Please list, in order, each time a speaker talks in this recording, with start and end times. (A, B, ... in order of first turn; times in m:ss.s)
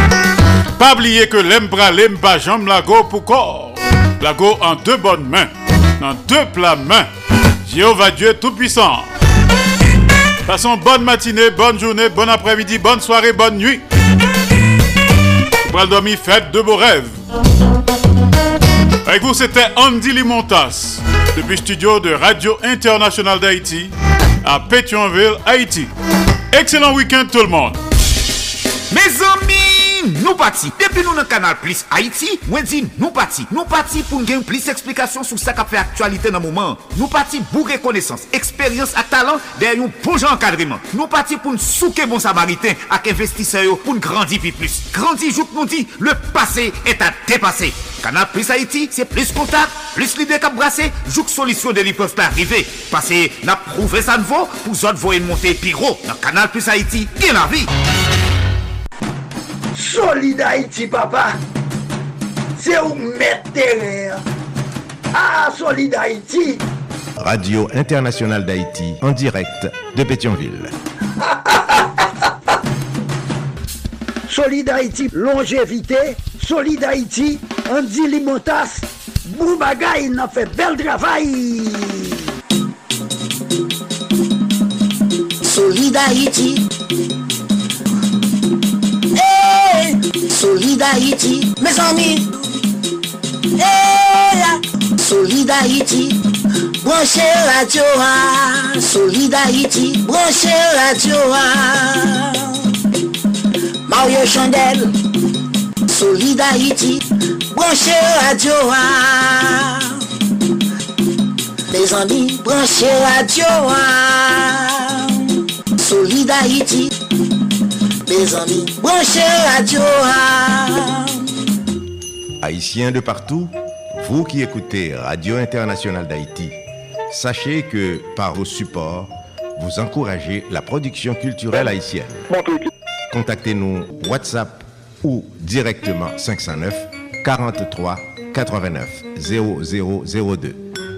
0:00.8-0:07.1 A
0:07.6-0:09.1 A
0:10.4-0:13.8 A
0:15.6-0:17.2 A
0:19.0-0:25.9 A
0:26.5-0:27.8 A
0:28.9-0:57.7 B
0:59.7-1:01.4 C
1:02.6-1:04.2 C
1:05.1-1:06.6 C
1:07.2-1:10.7 D
1:11.3-1:11.8 C
1:14.3-1:22.2 C
1:25.4-1:26.7 E
1:29.1-1:32.3 E
1:33.6-1:36.2 E
1:36.8-1:42.6 E
1:43.8-1:45.0 E
1:45.9-1:47.0 E
1:47.5-1:50.0 E
1:51.7-1:55.1 E
1:55.8-1:56.9 E
1:58.0-2:01.2 E
2:02.4-2:06.6 D
2:07.1-2:12.4 D
2:13.1-2:20.6 D